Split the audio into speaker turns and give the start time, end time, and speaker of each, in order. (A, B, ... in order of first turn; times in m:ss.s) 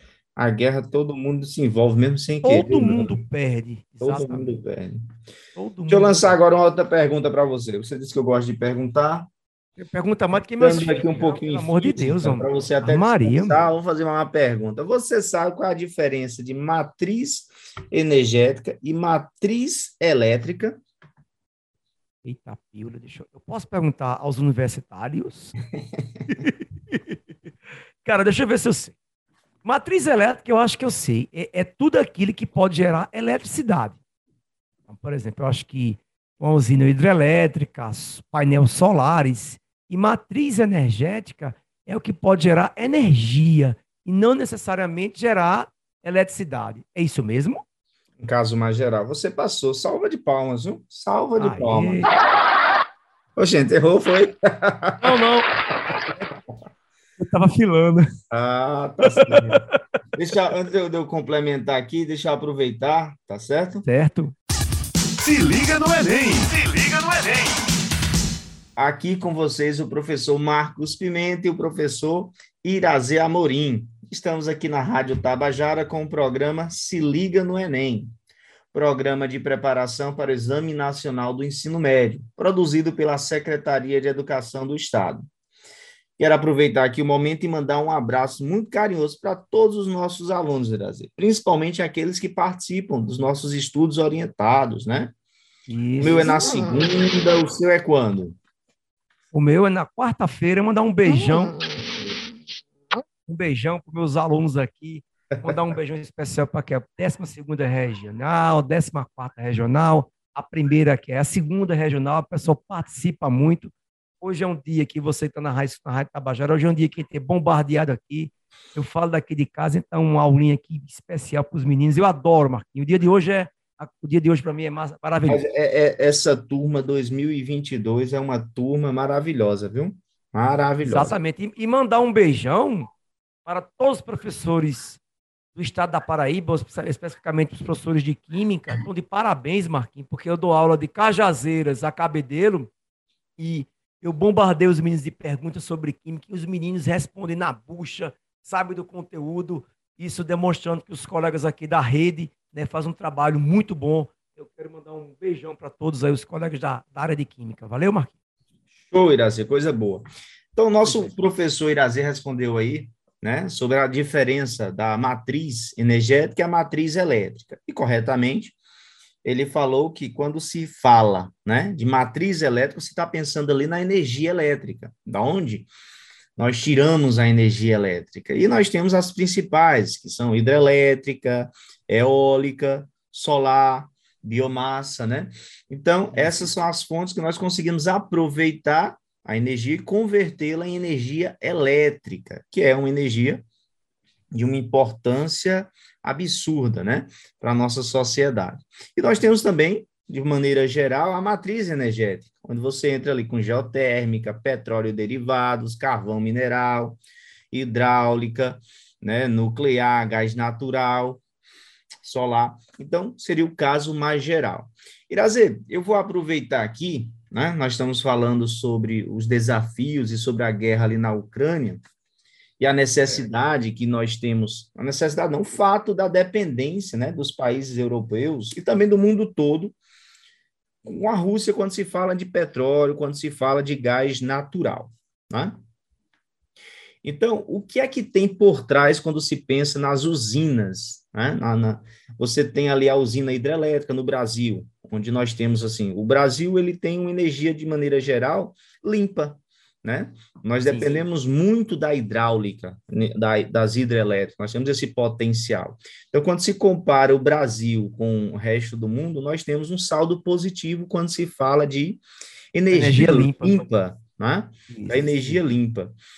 0:00.4-0:03.2 A
0:02.4-0:04.5 B
0:04.0-0:05.1 A
0:05.6-0:06.4 B
0:05.9-0:09.3 A
0:09.8-0:13.6 B
0:10.6-0:20.8 A
0:22.2-0:25.6 B
0:26.3-0:27.2 B
0:28.0-0:28.9 B
0:29.6-0:34.0 B
0:34.9-0:47.6 B
0:48.2-0:52.1 A
0:51.4-0:52.1 B
0:53.4-0:55.2 A
0:55.0-0:55.5 B
0:57.2-0:58.1 B
0:58.3-0:59.6 A
0:59.0-0:59.7 B
1:00.1-1:03.8 A
1:03.8-1:04.3 B
1:05.2-1:07.7 C
1:08.8-1:18.1 A
1:18.7-1:25.2 A
1:26.2-1:35.1 A
1:35.7-1:36.4 B
1:36.0-1:38.4 A
1:39.3-1:41.6 B
1:43.3-2:05.4 B
2:05.3-2:11.1 A
2:10.8-2:12.9 B
2:13.4-2:15.0 B
2:15.5-2:22.7 B
2:23.4-2:38.1 B
2:38.9-2:48.5 A
2:40.8-2:41.1 B
2:49.2-2:55.7 A
2:56.4-3:13.4 A
3:06.1-3:06.5 B
3:14.3-3:27.0 A
3:27.5-3:31.2 A
3:32.0-3:41.8 A
3:42.6-3:49.7 A
3:50.8-3:55.6 A
3:57.0-4:22.0 A
4:10.7-4:11.0 B
4:22.5-4:25.9 A
4:22.7-4:23.7 B
4:24.7-4:25.4 B